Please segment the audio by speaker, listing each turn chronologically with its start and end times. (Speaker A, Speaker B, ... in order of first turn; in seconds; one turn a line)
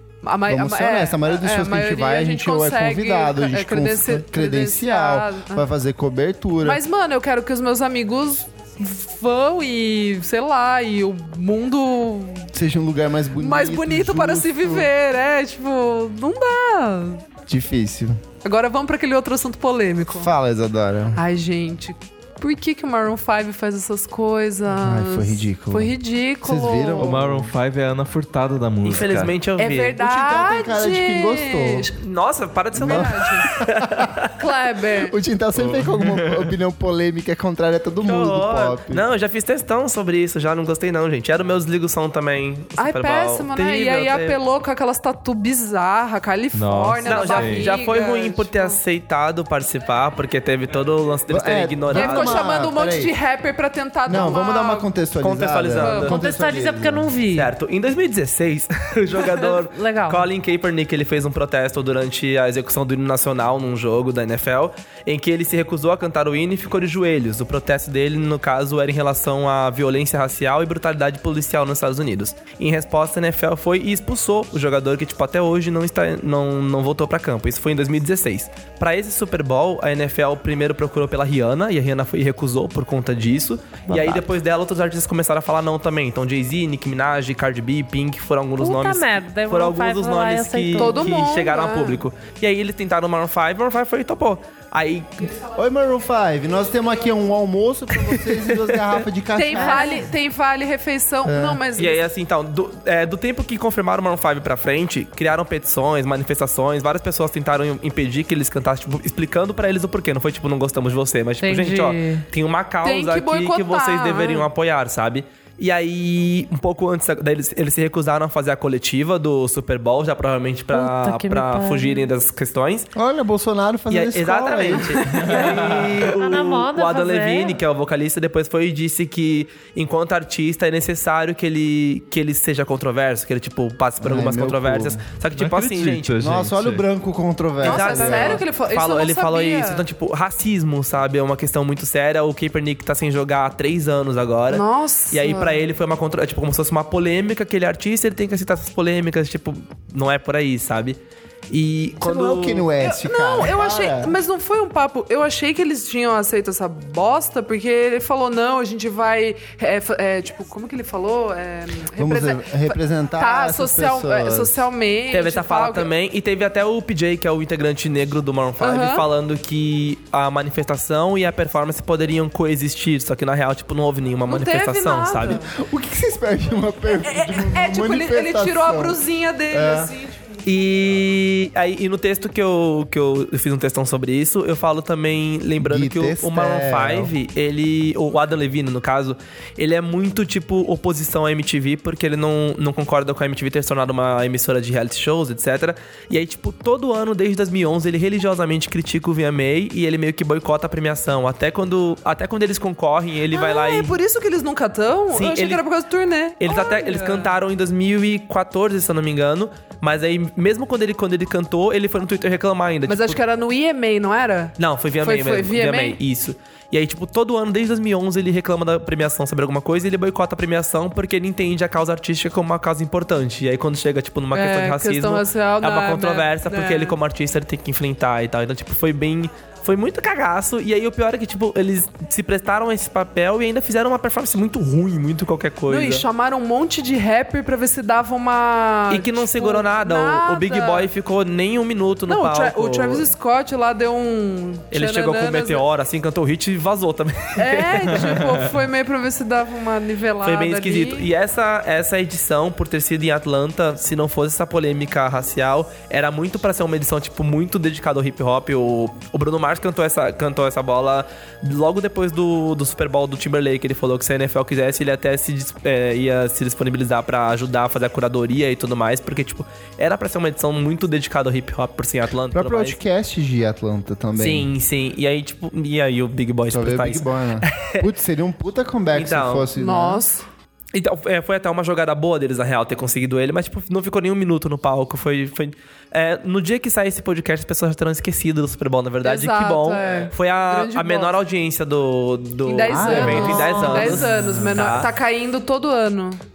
Speaker A: 0.2-5.7
Speaker B: 0.5-6.8
Speaker A: 6.6-12.5
Speaker B: 12.5-14.9
Speaker A: 13.4-17.3
Speaker B: 17.5-18.2
Speaker A: 18.4-20.3
Speaker B: 20.1-21.2
Speaker A: 21.1-27.3
Speaker B: 24.8-27.5
Speaker C: 27.0-29.4
Speaker D: 28.8-30.0
Speaker A: 29.6-32.0
Speaker B: 30.0-31.9
Speaker D: 32.0-34.3
Speaker B: 32.7-34.1
Speaker A: 32.8-33.6
Speaker A: 34.4-35.1
Speaker B: 35.0-39.1
Speaker C: 35.6-36.5
Speaker D: 38.0-44.4
Speaker A: 42.8-48.8
Speaker C: 46.5-47.7
Speaker D: 47.0-52.5
Speaker B: 51.3-53.1
Speaker A: 51.9-54.9
Speaker B: 54.1-57.1
Speaker D: 55.2-56.2
Speaker A: 55.8-56.1
Speaker E: 56.1-57.5
Speaker D: 57.3-95.4
Speaker E: 59.3-60.3
Speaker E: 83.9-84.2
Speaker E: 88.6-91.0
Speaker A: 90.8-92.0
Speaker B: 95.5-100.0
Speaker D: 98.1-98.3
Speaker A: 99.3-102.0
Speaker E: 99.6-99.9
Speaker B: 101.2-101.6
Speaker D: 101.8-122.9
Speaker E: 111.4-112.2
Speaker A: 112.8-114.5
Speaker E: 120.7-122.0
Speaker B: 122.9-125.3
Speaker D: 123.9-136.2
Speaker C: 125.1-126.0
Speaker E: 126.1-127.6
Speaker B: 134.0-135.0
Speaker C: 135.3-136.8
Speaker B: 136.2-138.4
Speaker A: 137.6-139.8
Speaker D: 137.6-151.0
Speaker A: 144.5-145.6
Speaker D: 151.5-152.7
Speaker B: 152.0-154.2
Speaker A: 152.8-165.9
Speaker B: 161.9-164.7
Speaker D: 165.1-175.4
Speaker A: 168.6-169.1
Speaker A: 174.3-175.5
Speaker B: 175.5-179.0
Speaker A: 177.0-180.3
Speaker B: 179.5-179.9
Speaker D: 180.4-204.0
Speaker B: 185.6-187.1
Speaker A: 203.3-207.3
Speaker D: 205.1-205.6
Speaker D: 206.4-213.2
Speaker A: 212.9-216.0
Speaker D: 214.6-236.1
Speaker A: 224.3-227.0
Speaker A: 235.7-240.9
Speaker D: 238.9-243.1
Speaker A: 242.1-245.6
Speaker D: 244.7-248.0
Speaker A: 247.4-251.1
Speaker C: 248.0-248.4
Speaker D: 250.2-272.8
Speaker B: 272.3-274.5
Speaker D: 274.1-277.9
Speaker B: 276.5-280.1
Speaker D: 278.9-279.5
Speaker A: 279.5-280.3
Speaker D: 280.7-294.9
Speaker A: 289.0-291.2
Speaker A: 292.4-296.2
Speaker B: 292.7-294.3